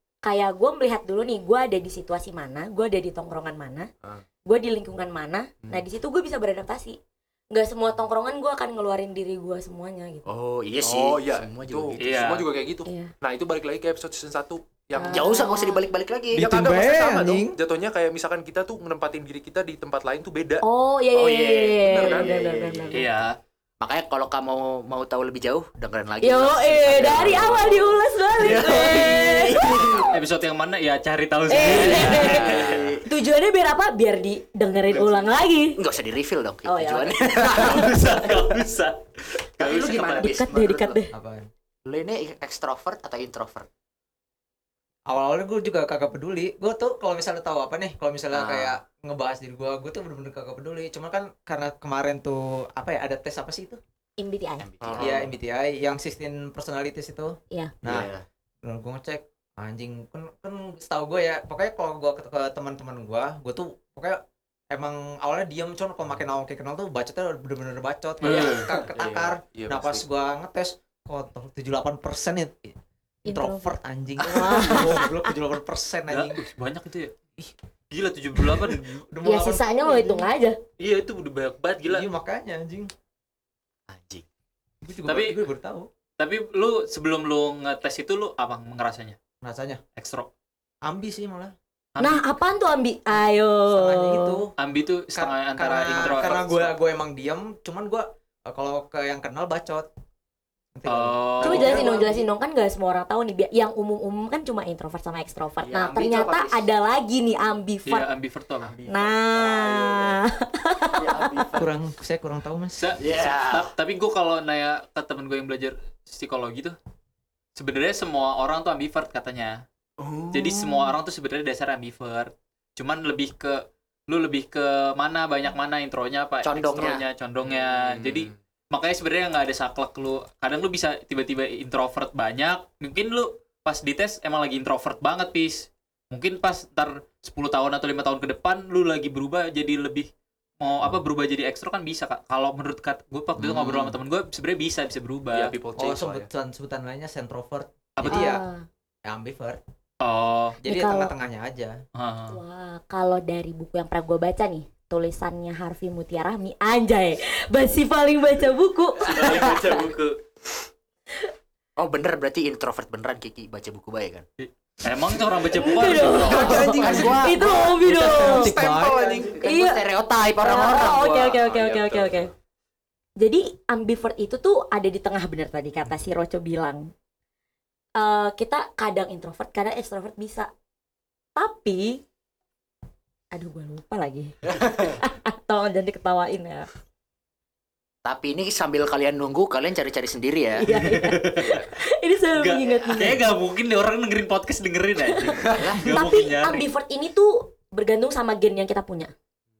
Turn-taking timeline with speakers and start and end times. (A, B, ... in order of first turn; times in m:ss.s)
0:00.2-0:03.9 A
0:04.5-0:07.0 A
0:07.5-0:10.2 A
0:10.2-0:12.4 B
0:10.8-0:15.4 C
0:12.0-0:12.5 D
0:12.8-0:13.1 A
0:14.9-0:15.9 A
0:15.1-0:16.5 B
0:16.3-0:20.6 C
0:16.3-0:17.6 E
0:20.6-0:23.0 A
0:21.1-0:23.1 B
0:21.8-0:22.3 C
0:22.9-0:23.4 D
0:23.8-0:30.2 B
0:26.2-0:30.0 A
0:28.7-0:29.4 D
0:30.1-0:32.8 D
0:31.5-0:35.8 A
0:31.6-0:33.0 B
0:32.0-0:33.0 C
0:34.9-0:35.2 B
0:35.8-0:38.5 B
0:36.6-0:38.0 A
0:37.5-0:40.3 D
0:39.4-0:41.0 B
0:40.2-0:41.1 A
0:41.1-0:41.5 E
0:41.8-0:43.7 B
0:45.1-0:53.8 E
0:48.3-0:48.8 B
0:54.2-0:54.7 A
0:54.6-0:55.3 B
0:54.8-0:55.2 C
0:55.0-0:58.1 E
0:57.8-0:58.2 B
0:58.6-1:12.8 E
1:08.2-1:08.7 D
1:08.6-1:10.0 C
1:13.2-1:15.3 A
1:13.2-1:16.4 E
1:16.1-1:17.1 D
1:17.9-1:19.0 D
1:18.7-1:20.3 E
1:19.2-1:20.6 A
1:20.8-1:22.1 D
1:21.8-1:22.9 E
1:23.9-1:24.2 B
1:24.8-1:25.9 E
1:25.0-1:25.4 D
1:26.2-1:29.2 D
1:29.4-1:29.8 E
1:30.0-1:30.3 D
1:30.8-1:31.5 E
1:31.9-1:32.2 D
1:32.0-1:34.4 A
1:33.7-1:34.6 E
1:34.6-1:36.7 D
1:35.1-1:39.9 E
1:35.9-1:36.4 B
1:40.8-1:42.2 E
1:40.8-1:41.8 D
1:41.4-1:48.1 A
1:41.7-1:42.1 B
1:45.6-1:46.7 B
1:47.8-1:48.7 D
1:48.6-1:50.2 B
1:48.9-1:51.5 A
1:50.9-1:51.7 B
1:51.6-1:53.0 E
1:52.8-1:56.8 D
1:53.0-1:53.7 B
1:57.5-1:59.6 D
2:00.0-2:00.9 B
2:00.3-2:20.1 D
2:06.4-2:07.0 B
2:07.4-2:08.4 C
2:20.6-2:25.6 D
2:23.4-2:24.0 E
2:25.3-2:26.3 C
2:25.8-2:28.4 E
2:28.0-2:28.4 D
2:28.1-2:28.6 A
2:29.0-2:29.6 E
2:30.0-2:30.6 D
2:30.6-2:31.8 E
2:30.6-2:31.1 A
2:32.0-2:32.4 D
2:32.3-2:39.8 A
2:39.0-2:40.2 D
2:39.4-2:39.9 B
2:41.8-2:44.2 B
2:44.4-2:47.1 D
2:45.5-2:48.5 A
2:45.9-2:47.7 B
2:46.2-2:49.3 E
2:46.3-2:49.4 C
2:48.9-2:51.4 B
2:49.4-2:49.8 A
2:50.4-2:52.3 A
2:51.3-2:52.3 C
2:53.2-2:56.9 A
2:58.0-3:00.5 A
3:01.4-3:02.0 A
3:03.3-3:06.7 A
3:04.6-3:05.0 B
3:08.0-3:10.7 B
3:10.6-3:13.2 A
3:10.7-3:11.6 D
3:11.4-3:11.7 C
3:12.3-3:16.7 D
3:15.1-3:19.1 A
3:15.5-3:15.9 B